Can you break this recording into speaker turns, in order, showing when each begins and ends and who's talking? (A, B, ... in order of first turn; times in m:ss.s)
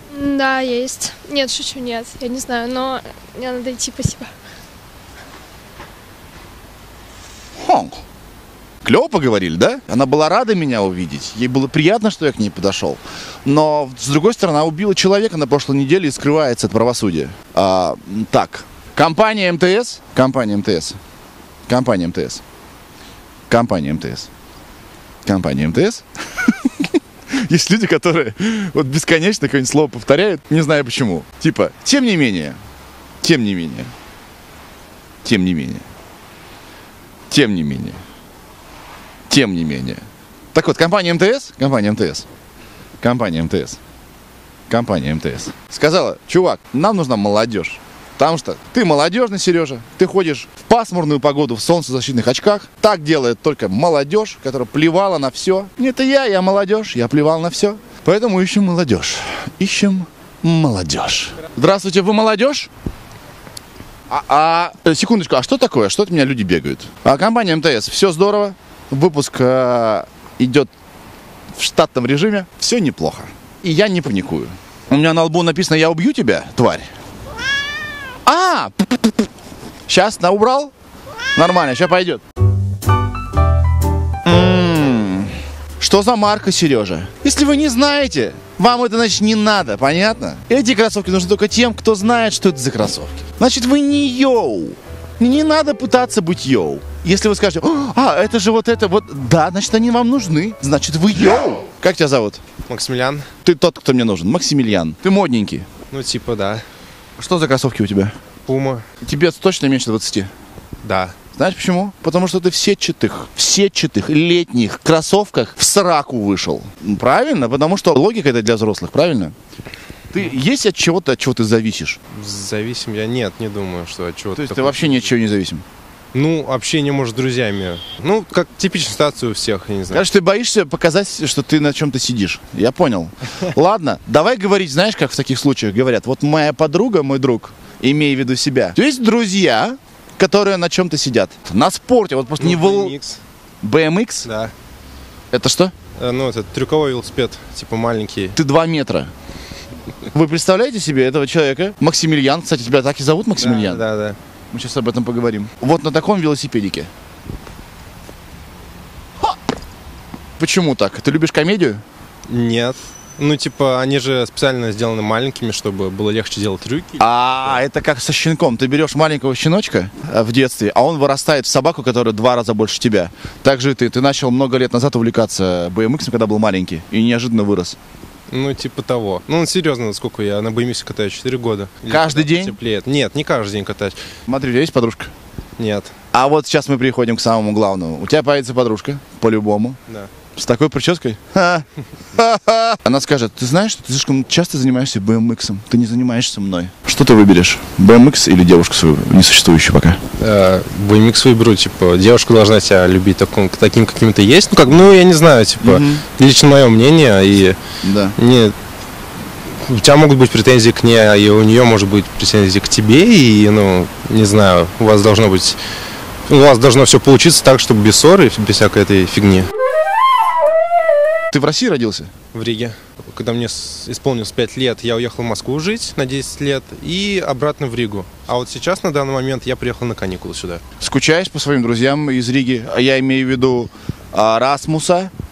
0:00.1-0:04.3 A
0:07.6-0:08.0 B
0:08.8-0:21.0 B
0:21.7-0:22.4 B
0:23.5-0:24.3 B
0:25.2-0:32.6 B
0:33.2-0:33.9 B
0:35.2-0:35.8 B
0:37.3-0:38.0 B
0:39.3-0:40.0 B
0:40.5-0:42.3 B
0:43.0-0:43.8 B
0:44.7-1:02.7 B
1:04.1-1:10.7 B
1:11.6-1:16.9 B
1:18.2-1:19.3 B
1:19.9-1:20.7 B
1:21.4-1:22.2 B
1:24.2-1:42.4 B
1:42.7-1:43.3 C
1:43.4-1:45.7 B
1:45.9-1:46.6 C
1:47.2-1:48.2 B
1:48.5-1:48.8 C
1:49.0-1:50.3 B
1:50.8-1:51.2 C
1:51.4-1:59.3 B
2:00.1-2:02.0 B
2:02.1-2:05.1 C
2:04.4-2:05.6 B
2:06.1-2:10.1 C
2:09.9-2:23.0 B
2:22.4-2:23.2 C
2:23.6-2:24.3 B
2:24.2-2:24.5 C
2:25.3-2:25.7 B
2:26.0-2:28.4 C
2:28.4-2:29.1 B
2:30.1-2:33.8 B
2:33.4-2:34.2 C
2:34.5-2:36.9 B
2:40.4-2:41.8 B
2:42.3-2:47.6 C
2:47.0-2:57.8 B
2:58.3-3:04.0 C
3:01.9-3:02.6 B
3:04.3-3:05.1 B
3:05.6-3:05.9 C
3:06.1-3:09.8 B
3:10.4-3:20.0 B
3:20.2-3:27.6 C
3:25.6-3:26.0 B
3:27.8-3:28.2 B
3:28.2-3:28.5 C
3:29.7-3:35.6 C
3:36.3-3:39.5 C
3:41.3-3:42.1 B
3:42.3-3:50.6 C
3:50.8-3:55.1 B